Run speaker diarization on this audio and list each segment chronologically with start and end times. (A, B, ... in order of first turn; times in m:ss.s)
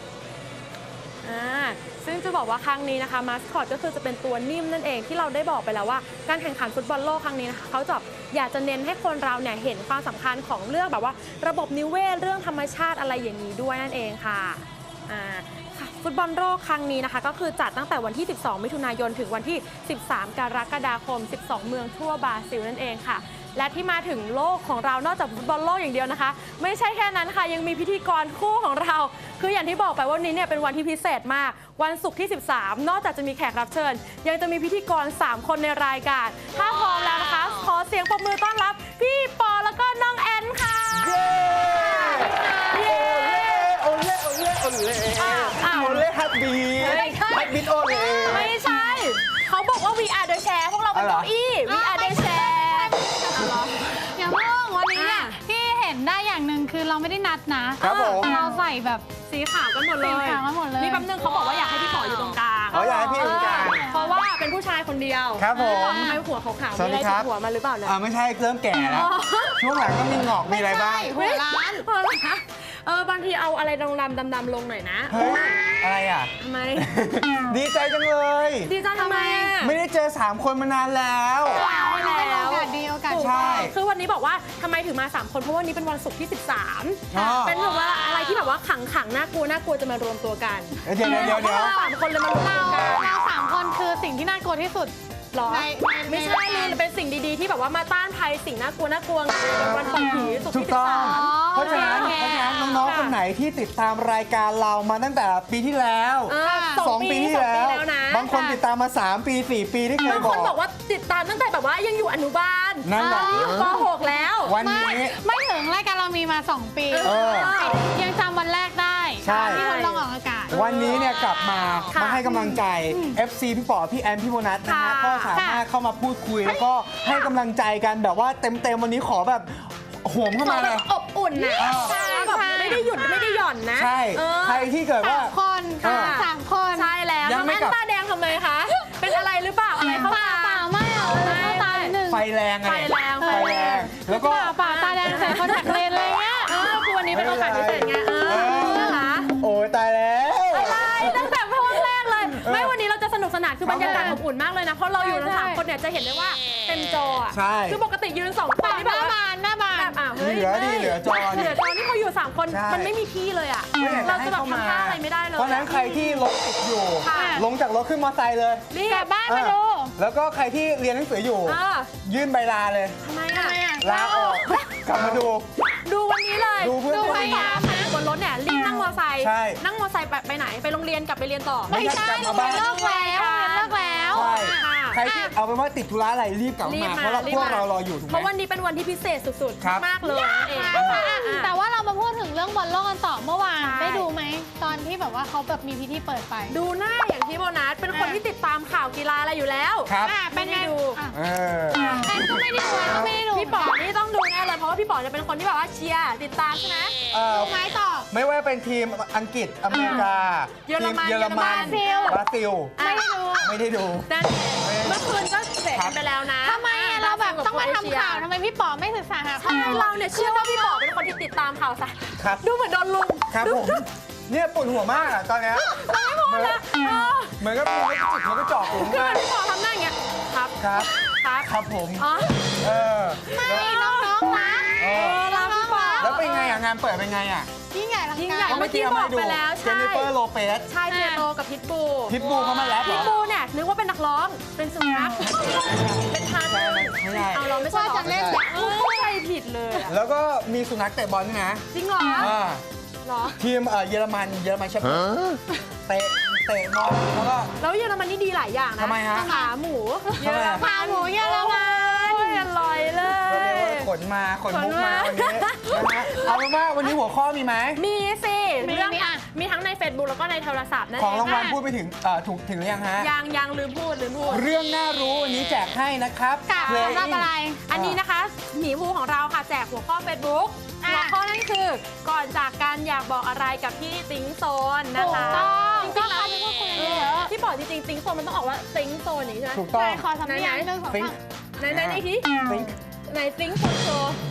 0:01.2-0:43.7 A
0:40.9-0:48.5 B
0:41.9-0:42.6 C
0:45.1-0:46.1 A
0:46.8-0:47.6 A
0:46.8-0:48.5 C
0:48.2-0:54.0 A
0:50.9-0:51.3 B
0:51.6-0:59.0 C
0:54.9-0:55.4 A
0:57.8-0:58.4 B
0:57.8-0:58.6 A
0:59.3-1:08.0 A
1:00.0-1:04.2 C
1:02.7-1:03.8 B
1:05.4-1:06.2 B
1:05.5-1:06.2 C
1:06.7-1:07.3 B
1:07.8-1:11.2 B
1:08.7-1:09.6 A
1:10.4-1:11.8 C
1:11.0-1:15.6 A
1:15.1-1:18.7 B
1:16.4-1:16.9 A
1:18.6-1:19.8 A
1:18.9-1:19.6 C
1:19.6-1:21.6 B
1:21.5-1:23.7 C
1:21.5-1:33.1 A
1:23.2-1:23.8 B
1:27.1-1:27.6 B
1:30.8-1:31.8 B
1:31.0-1:36.8 C
1:35.3-1:43.2 A
1:40.0-1:40.3 C
1:40.5-1:50.6 B
1:40.9-1:42.8 C
1:46.3-1:48.3 A
1:46.4-1:46.9 C
1:48.3-1:48.6 C
1:50.0-1:54.6 A
1:52.8-1:53.5 B
1:53.0-1:53.7 C
1:54.4-1:55.2 B
1:54.6-2:00.5 C
1:56.9-1:57.8 A
1:57.0-1:57.5 B
1:59.2-1:59.7 B
1:59.2-2:01.1 A
2:00.5-2:10.9 B
2:01.9-2:02.2 A
2:02.2-2:03.2 C
2:04.6-2:05.4 A
2:05.3-2:05.6 C
2:10.4-2:14.7 A
2:11.3-2:13.4 C
2:11.6-2:12.0 B
2:13.7-2:16.2 B
2:15.0-2:16.9 C
2:15.8-2:22.0 A
2:17.2-2:17.8 B
2:19.8-2:22.2 C
2:22.0-2:24.6 B
2:22.6-2:23.8 A
2:23.2-2:26.7 C
2:24.6-2:25.9 A
2:26.4-2:29.3 A
2:27.1-2:31.4 B
2:28.0-2:29.1 C
2:30.5-2:39.2 A
2:32.3-2:32.7 B
2:33.6-2:34.2 B
2:33.6-2:34.2 C
2:35.0-2:35.6 C
2:37.3-2:37.8 B
2:38.6-2:40.0 C
2:39.7-2:46.0 A
2:40.2-2:41.6 B
2:42.5-2:42.9 B
2:43.7-2:48.7 B
2:45.7-2:46.2 C
2:47.0-2:47.4 A
2:47.0-2:47.4 C
2:48.7-2:49.1 A
2:48.8-2:49.9 C
2:49.2-2:53.0 B
2:51.4-2:51.9 A
2:53.0-2:54.6 A
2:53.3-2:54.4 C
2:53.8-2:55.5 B
2:55.6-3:05.0 A
2:56.6-2:57.5 B
2:56.8-2:57.9 C
2:59.2-2:59.6 B
3:01.7-3:05.3 C
3:01.7-3:02.7 B
3:04.1-3:08.3 B
3:06.6-3:11.5 A
3:09.6-3:09.9 B
3:10.0-3:16.6 C
3:10.7-3:11.0 B
3:13.6-3:14.1 A
3:16.5-3:21.0 A
3:17.9-3:18.2 C
3:19.8-3:20.2 B
3:20.0-3:21.2 C
3:21.1-3:23.1 B
3:21.7-3:23.8 C
3:22.9-3:26.9 A
3:27.1-3:27.6 B
3:27.3-3:28.1 C
3:28.1-3:32.8 B
3:29.7-3:30.0 A
3:30.6-3:32.2 A
3:31.3-3:32.2 C
3:32.8-3:33.1 A
3:32.8-3:33.5 C
3:33.4-3:35.2 B
3:34.1-3:38.2 A
3:35.7-3:36.0 B
3:36.4-3:40.8 C
3:39.4-3:43.8 A
3:42.2-3:42.4 B
3:43.3-3:46.6 B
3:45.5-3:47.4 A
3:47.4-3:49.2 B
3:48.5-3:52.6 A
3:50.6-3:52.1 B
3:52.6-3:53.7 B
3:53.2-3:56.6 A
3:53.3-3:56.2 C
3:54.8-3:55.2 B
3:56.0-3:57.5 B
3:57.7-3:58.7 C
3:58.1-4:00.1 A
3:58.4-4:00.7 B
4:00.6-4:02.2 A
4:00.9-4:01.2 C
4:02.1-4:03.1 B
4:02.3-4:02.8 C
4:02.8-4:09.9 A
4:05.9-4:08.4 B
4:07.6-4:09.2 C
4:09.9-4:11.6 B
4:11.7-4:12.3 A
4:12.2-4:12.6 B
4:13.0-4:13.4 A
4:13.4-4:15.4 B
4:15.9-4:17.5 B
4:17.6-4:23.9 A
4:18.8-4:19.3 B
4:19.1-4:19.5 C
4:20.1-4:22.5 C
4:20.2-4:20.7 B
4:23.2-4:27.8 B
4:24.5-4:26.4 A
4:27.7-4:31.5 A
4:28.6-4:29.2 C
4:31.0-4:33.1 B
4:31.2-4:31.6 C
4:33.0-4:34.5 A
4:34.3-4:38.0 B
4:36.5-4:37.6 C
4:36.6-4:37.2 A
4:37.7-4:50.7 A
4:40.8-4:41.2 C
4:45.0-4:47.3 C
4:45.0-4:45.6 B
4:49.5-4:50.1 B
4:49.7-4:51.2 C
4:50.9-4:52.8 B
4:51.6-4:52.4 A
4:53.0-4:54.2 A